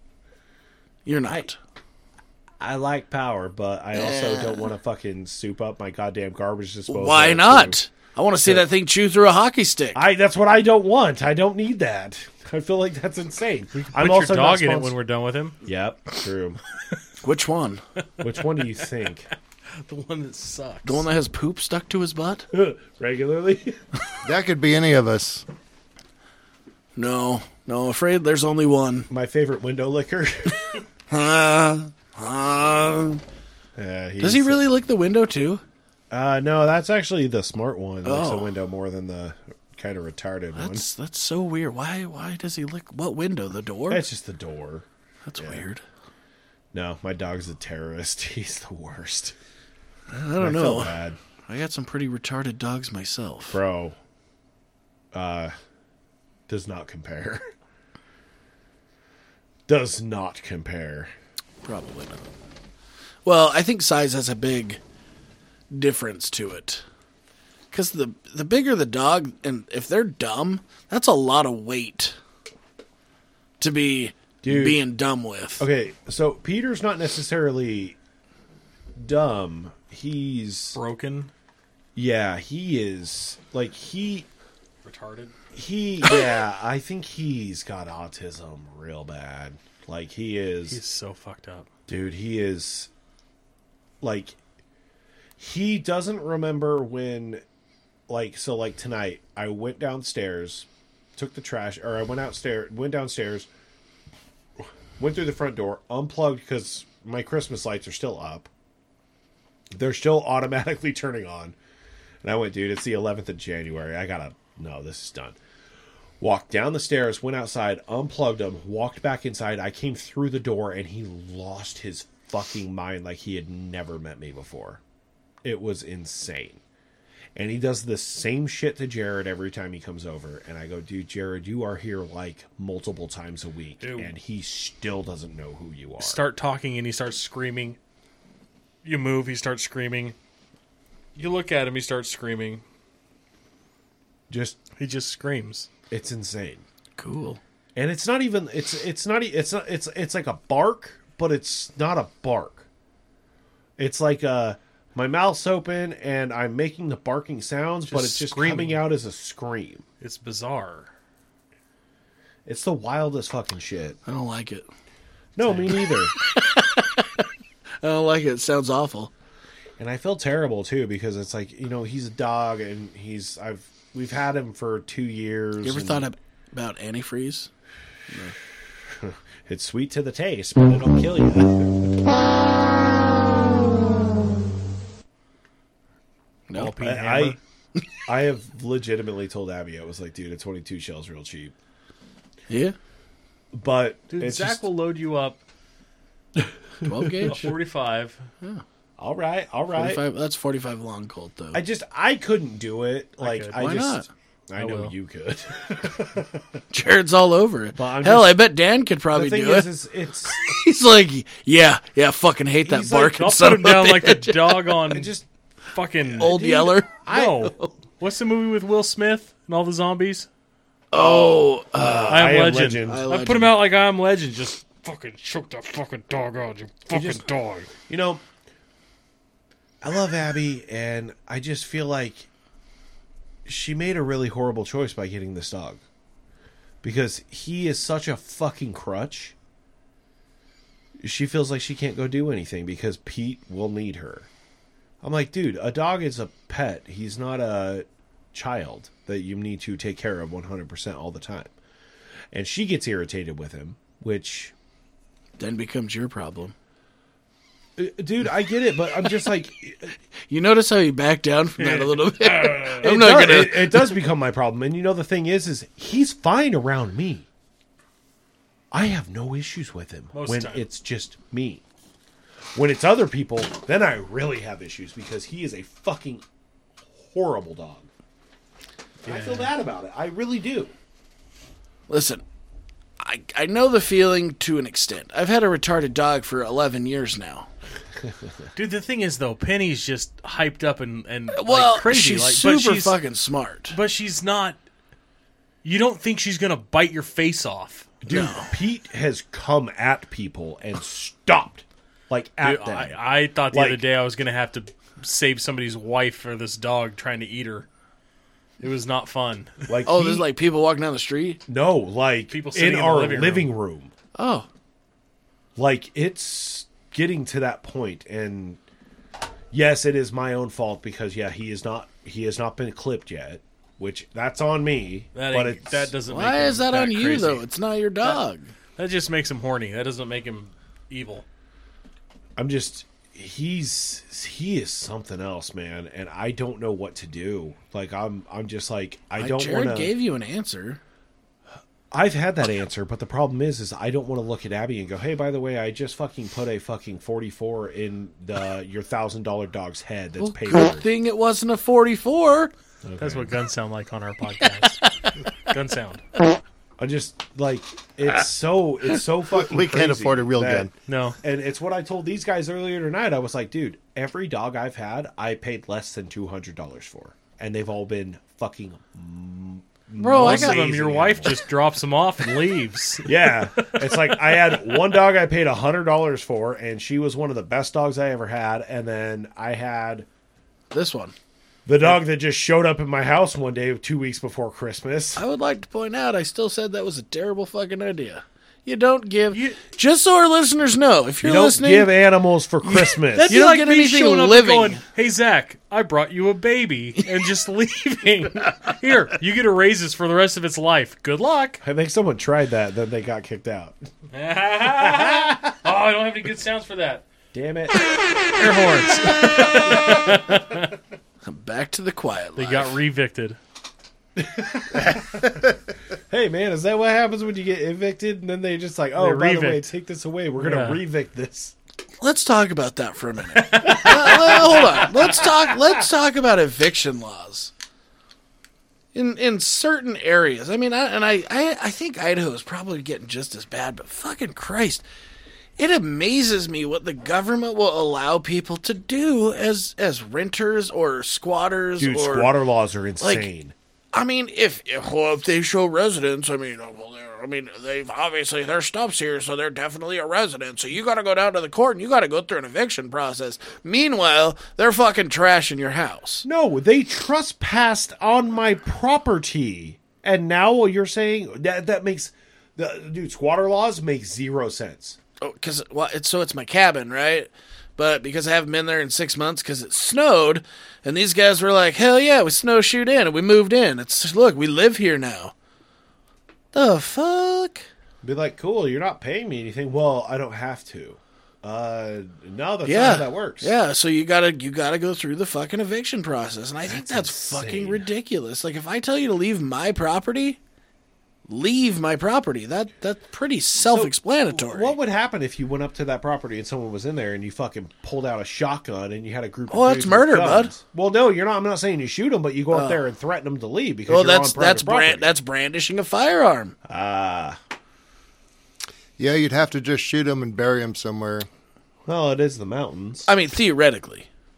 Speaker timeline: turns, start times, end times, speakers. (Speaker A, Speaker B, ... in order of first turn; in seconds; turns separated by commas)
Speaker A: 1.1-1.6, Speaker B: 2.6-7.8, Speaker A: 3.9-4.7, Speaker A: 6.9-10.0, Speaker B: 9.9-14.9, Speaker C: 13.7-15.6, Speaker B: 15.6-16.6, Speaker A: 17.2-17.8, Speaker B: 18.2-19.3, Speaker C: 19.8-21.0, Speaker A: 20.9-22.5, Speaker B: 22.5-23.8, Speaker D: 24.2-25.4, Speaker A: 26.9-29.1, Speaker B: 29.1-30.7, Speaker A: 31.1-33.2, Speaker B: 33.8-34.6, Speaker A: 34.2-35.6, Speaker B: 36.1-40.9, Speaker A: 38.0-38.5, Speaker A: 40.6-44.0, Speaker B: 43.9-44.9, Speaker A: 45.2-45.8, Speaker B: 45.4-45.6, Speaker B: 46.7-49.4, Speaker A: 50.1-53.6, Speaker B: 50.4-51.2, Speaker B: 53.5-54.0, Speaker B: 55.1-55.5, Speaker B: 56.5-57.4, Speaker B: 59.7-61.1, Speaker A: 61.6-62.2, Speaker A: 63.2-64.8, Speaker A: 65.7-66.8, Speaker A: 67.7-72.2, Speaker A: 73.6-75.7, Speaker B: 74.4-74.8, Speaker B: 75.6-78.0, Speaker B: 79.0-80.8, Speaker C: 80.7-81.3, Speaker B: 82.0-84.3, Speaker C: 84.8-85.3, Speaker B: 85.5-90.8, Speaker C: 90.7-91.7, Speaker B: 91.9-92.9, Speaker B: 94.0-94.4, Speaker B: 95.4-97.4, Speaker B: 98.1-103.5, Speaker B: 105.0-108.5, Speaker B: 109.7-111.5, Speaker B: 112.2-115.4, Speaker B: 116.2-124.8, Speaker B: 125.4-126.6, Speaker B: 127.4-136.2, Speaker C: 133.8-134.1, Speaker C: 136.0-137.8, Speaker C: 138.8-140.2, Speaker C: 141.2-142.6, Speaker B: 144.3-144.6, Speaker C: 144.8-145.7, Speaker B: 145.9-146.6, Speaker A: 147.0-147.4, Speaker B: 147.8-152.7, Speaker B: 153.8-159.8, Speaker C: 157.9-158.8, Speaker C: 160.0-160.9, Speaker B: 162.4-164.0, Speaker A: 164.1-164.7, Speaker B: 165.4-166.1, Speaker C: 165.4-165.7, Speaker A: 165.7-167.3, Speaker A: 167.8-169.1, Speaker B: 169.8-176.1, Speaker A: 175.6-177.5, Speaker A: 178.1-178.4, Speaker B: 179.0-181.9, Speaker A: 186.5-187.1, Speaker C: 186.5-187.4, Speaker B: 186.8-187.4, Speaker B: 188.1-191.5, Speaker A: 192.5-192.8, Speaker B: 193.5-194.6, Speaker C: 194.1-195.4, Speaker B: 196.4-197.5, Speaker A: 196.9-197.5, Speaker C: 197.2-198.2, Speaker B: 199.0-200.0, Speaker A: 199.7-201.6, Speaker B: 201.5-206.4, Speaker C: 203.2-203.6, Speaker A: 203.6-204.1, Speaker C: 204.6-204.9, Speaker A: 206.7-209.7, Speaker B: 207.7-208.3, Speaker B: 209.1-210.5, Speaker A: 210.3-214.7, Speaker B: 212.6-213.3, Speaker C: 213.1-215.1, Speaker B: 214.9-215.2, Speaker C: 215.7-216.4, Speaker B: 216.0-217.7, Speaker A: 216.2-216.9, Speaker C: 217.1-220.3, Speaker A: 220.9-223.5, Speaker B: 221.0-223.1, Speaker C: 222.1-227.7, Speaker B: 226.9-227.2, Speaker B: 227.8-228.2, Speaker B: 229.8-232.3, Speaker B: 233.4-235.8, Speaker B: 236.8-239.3, Speaker B: 241.0-244.3, Speaker B: 245.0-251.5, Speaker B: 252.3-254.5, Speaker A: 255.4-256.5, Speaker B: 257.8-259.9, Speaker A: 260.3-264.0, Speaker C: 261.6-262.9, Speaker B: 262.7-267.3, Speaker B: 268.7-271.6, Speaker C: 270.1-270.6, Speaker B: 272.5-276.2, Speaker B: 276.9-277.9, Speaker C: 279.0-279.5, Speaker B: 279.0-280.7, Speaker A: 281.9-282.2, Speaker A: 283.0-287.5, Speaker C: 288.6-292.9, Speaker A: 291.3-293.8, Speaker C: 293.7-294.6, Speaker C: 295.6-297.9, Speaker B: 298.0-303.8, Speaker A: 298.1-298.5, Speaker C: 302.4-307.7, Speaker C: 308.6-309.7, Speaker B: 309.7-310.3, Speaker A: 309.9-311.4, Speaker B: 311.5-313.9, Speaker C: 312.3-313.5, Speaker A: 314.1-314.5, Speaker B: 315.6-318.6, Speaker B: 319.5-325.9, Speaker C: 325.1-327.4, Speaker A: 326.1-328.5, Speaker C: 328.8-331.2, Speaker B: 332.4-339.9, Speaker A: 339.2-340.8, Speaker B: 341.9-350.9, Speaker A: 350.2-352.5, Speaker B: 352.8-353.4, Speaker C: 353.0-354.9, Speaker C: 355.4-356.0, Speaker B: 356.8-360.7, Speaker D: 359.3-360.7, Speaker C: 360.9-361.2, Speaker B: 361.2-371.4, Speaker A: 370.0-370.7, Speaker C: 370.1-374.8, Speaker B: 373.0-380.1, Speaker A: 380.7-381.1, Speaker B: 381.7-385.2, Speaker A: 385.2-391.9, Speaker C: 389.3-389.6, Speaker B: 391.2-393.4, Speaker A: 392.6-394.8, Speaker C: 393.1-401.6, Speaker B: 401.6-403.8, Speaker C: 404.1-407.0, Speaker B: 404.8-405.4, Speaker B: 407.3-407.9, Speaker C: 408.4-410.8, Speaker A: 411.2-412.8, Speaker C: 412.4-413.4, Speaker B: 414.2-415.6, Speaker B: 416.1-421.5, Speaker C: 418.9-419.7, Speaker C: 420.4-420.8, Speaker A: 422.0-427.5, Speaker C: 423.3-425.1, Speaker B: 423.7-424.5, Speaker A: 428.9-434.8, Speaker A: 435.6-442.3, Speaker B: 441.8-443.5, Speaker A: 443.0-443.3, Speaker A: 443.9-456.2, Speaker B: 456.2-465.0, Speaker A: 465.2-475.3, Speaker A: 476.5-477.7, Speaker B: 478.0-483.5, Speaker A: 482.6-490.4, Speaker B: 486.7-487.9, Speaker A: 491.3-494.7, Speaker B: 493.6-505.1, Speaker A: 499.5-500.5, Speaker A: 502.5-502.8, Speaker A: 503.9-506.6, Speaker B: 506.7-507.4, Speaker D: 509.0-511.3, Speaker B: 511.9-513.1, Speaker A: 513.1-514.1